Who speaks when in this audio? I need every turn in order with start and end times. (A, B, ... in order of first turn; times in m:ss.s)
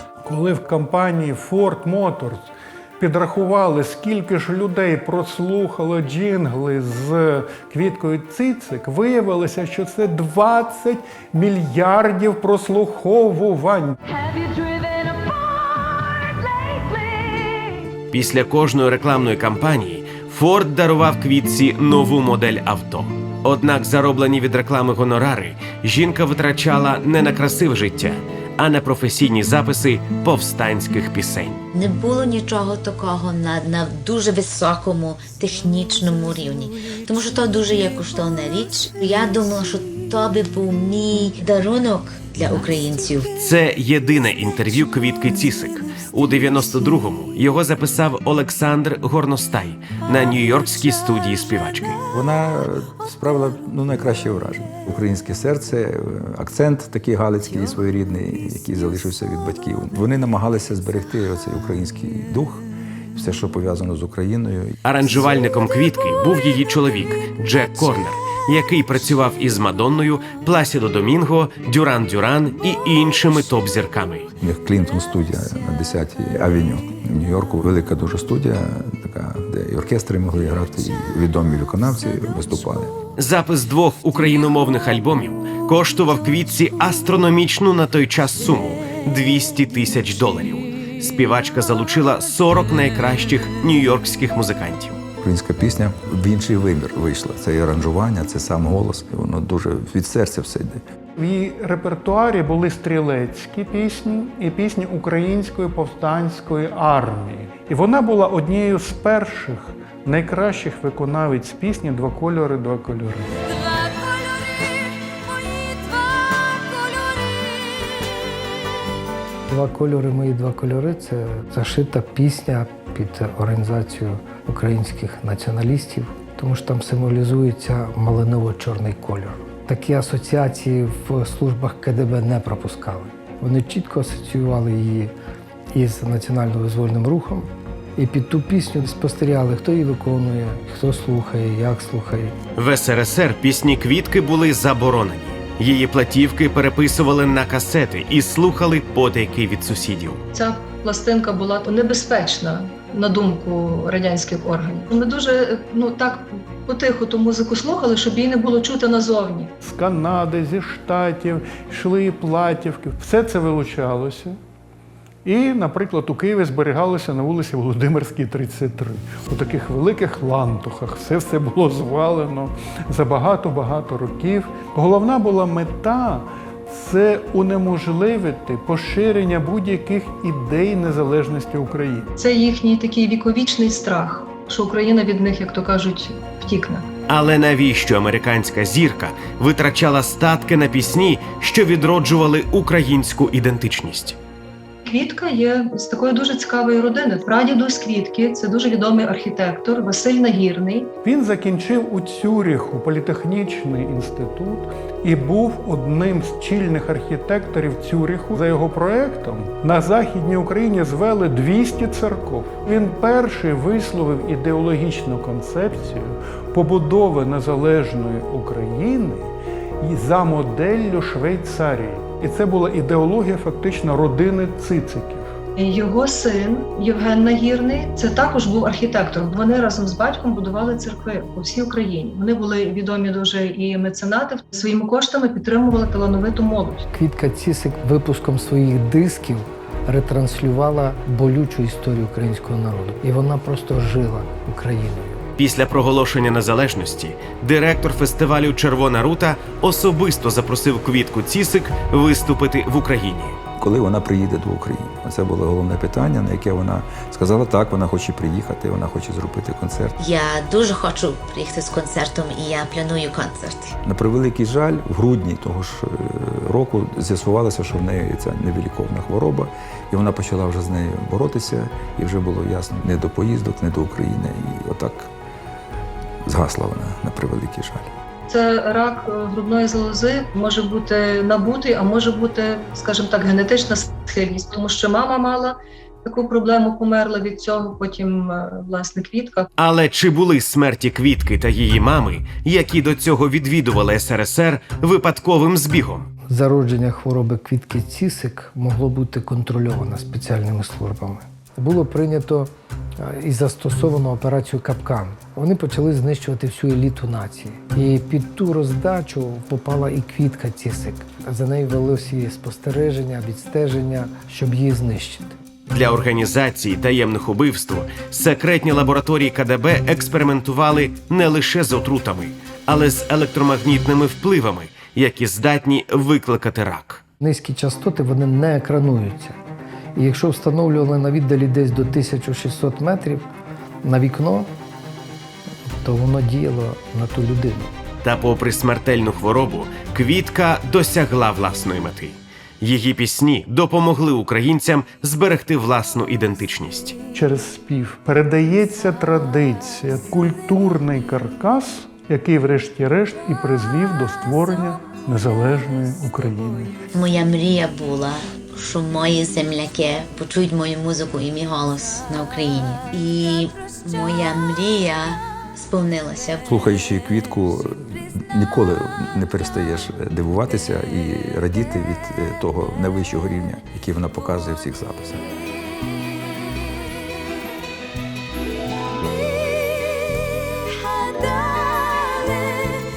0:00.2-0:14.0 A
0:14.1-0:18.0 B
0:18.1-0:31.6 C
0:31.7-0:43.3 D
0:43.4-0:52.0 C
0:52.1-1:04.8 E
1:04.8-1:14.3 C
1:14.4-1:22.9 E
1:23.2-1:35.0 C
1:35.2-1:40.8 E
1:41.2-1:53.4 A
1:53.5-1:58.5 B
1:59.5-2:15.1 F
2:15.7-2:22.4 F
2:22.5-2:30.2 C
2:30.3-2:39.5 G
2:39.6-2:44.4 A
2:45.2-3:02.1 A
3:02.2-3:06.8 G
3:07.1-3:14.2 C
3:14.8-3:20.9 G
3:21.0-3:45.3 A
3:45.6-3:56.8 G
3:56.9-4:05.2 F
4:05.4-4:13.4 C
4:13.6-4:20.0 E
4:20.0-4:23.8 D
4:23.8-4:35.1 E
4:36.2-4:37.9 E
4:38.3-4:49.4 G
4:49.6-4:56.1 C
4:56.3-5:15.4 F
5:15.7-5:27.0 C
5:27.2-5:29.4 F
5:29.9-5:33.2 F
5:33.8-5:34.5 F
5:35.7-5:37.7 F
5:38.0-5:47.0 C
5:47.1-5:56.8 A
5:56.9-6:06.4 D
6:06.4-6:15.4 E
6:19.4-6:20.1 B
6:20.7-6:22.7 B